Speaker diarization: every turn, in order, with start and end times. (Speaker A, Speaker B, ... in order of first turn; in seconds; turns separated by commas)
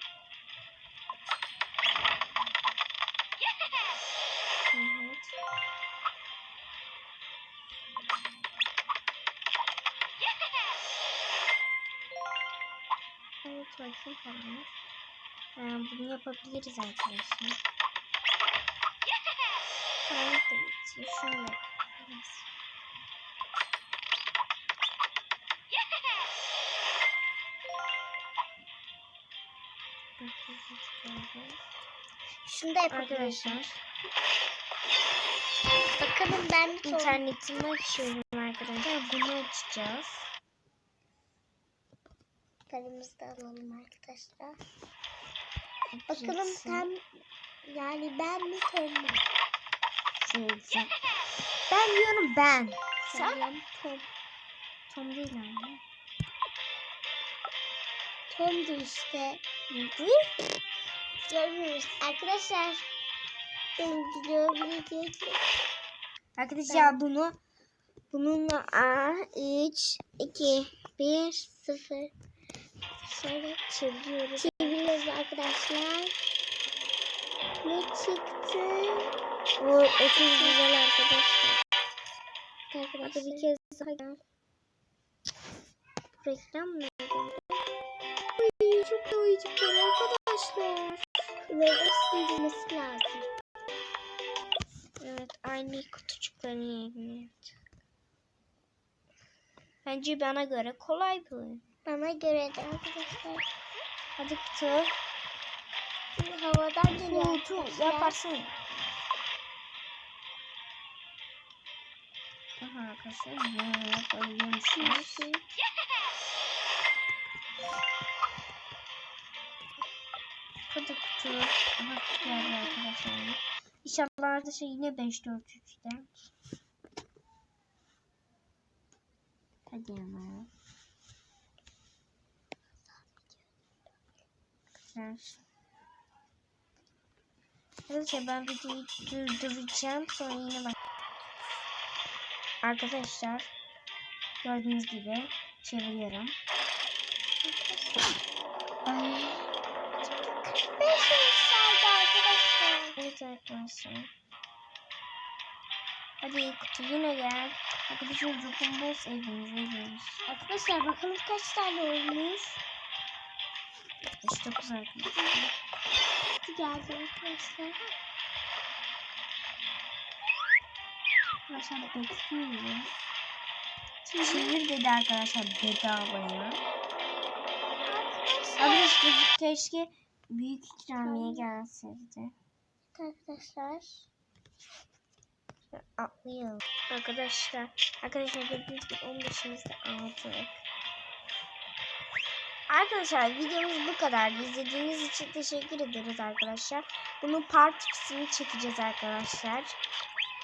Speaker A: 4.7-5.3, Speaker A: 13.4-14.7, Speaker A: 15.6-17.6, Speaker A: 20.0-22.5, Speaker A: 30.2-31.6, Speaker B: 32.5-33.6, Speaker A: 32.9-33.8, Speaker B: 35.9-37.2, Speaker A: 36.8-40.3, Speaker B: 42.7-44.6, Speaker A: 45.9-46.9, Speaker B: 46.1-47.0, Speaker B: 47.6-49.2, Speaker A: 50.2-50.9, Speaker A: 51.7-53.4, Speaker B: 53.1-54.1, Speaker A: 54.9-55.8, Speaker B: 58.3-59.4, Speaker A: 59.7-60.3, Speaker B: 61.3-62.9, Speaker B: 63.8-65.4, Speaker A: 66.4-67.4, Speaker B: 66.7-67.0, Speaker A: 68.1-71.6, Speaker B: 71.6-72.1, Speaker B: 73.0-73.5, Speaker A: 73.4-74.8, Speaker B: 74.4-76.2, Speaker B: 77.6-79.1, Speaker A: 79.6-81.6, Speaker B: 80.1-80.6, Speaker B: 82.7-83.5, Speaker A: 83.0-84.2, Speaker A: 86.2-87.6, Speaker A: 88.4-91.1, Speaker B: 91.5-93.3, Speaker A: 95.0-97.5, Speaker A: 99.8-101.6, Speaker B: 101.8-103.5, Speaker A: 104.2-104.9, Speaker B: 106.1-108.2, Speaker A: 107.1-108.6, Speaker A: 112.6-115.3, Speaker B: 114.7-115.4, Speaker A: 120.7-126.3, Speaker B: 122.2-122.8, Speaker A: 129.7-130.5, Speaker A: 134.8-135.4, Speaker A: 137.9-140.8, Speaker A: 142.6-143.5, Speaker A: 144.4-146.4, Speaker B: 147.4-148.1, Speaker A: 148.9-149.5, Speaker B: 150.1-153.0, Speaker A: 153.0-154.1, Speaker A: 156.2-160.2, Speaker B: 160.3-162.6, Speaker A: 164.2-165.5, Speaker B: 166.4-167.8, Speaker A: 171.5-172.9, Speaker B: 174.1-174.6, Speaker A: 174.2-176.6, Speaker B: 177.9-179.0, Speaker A: 178.6-182.3, Speaker B: 181.0-181.5, Speaker B: 182.9-184.1, Speaker A: 185.7-190.6, Speaker A: 192.7-199.8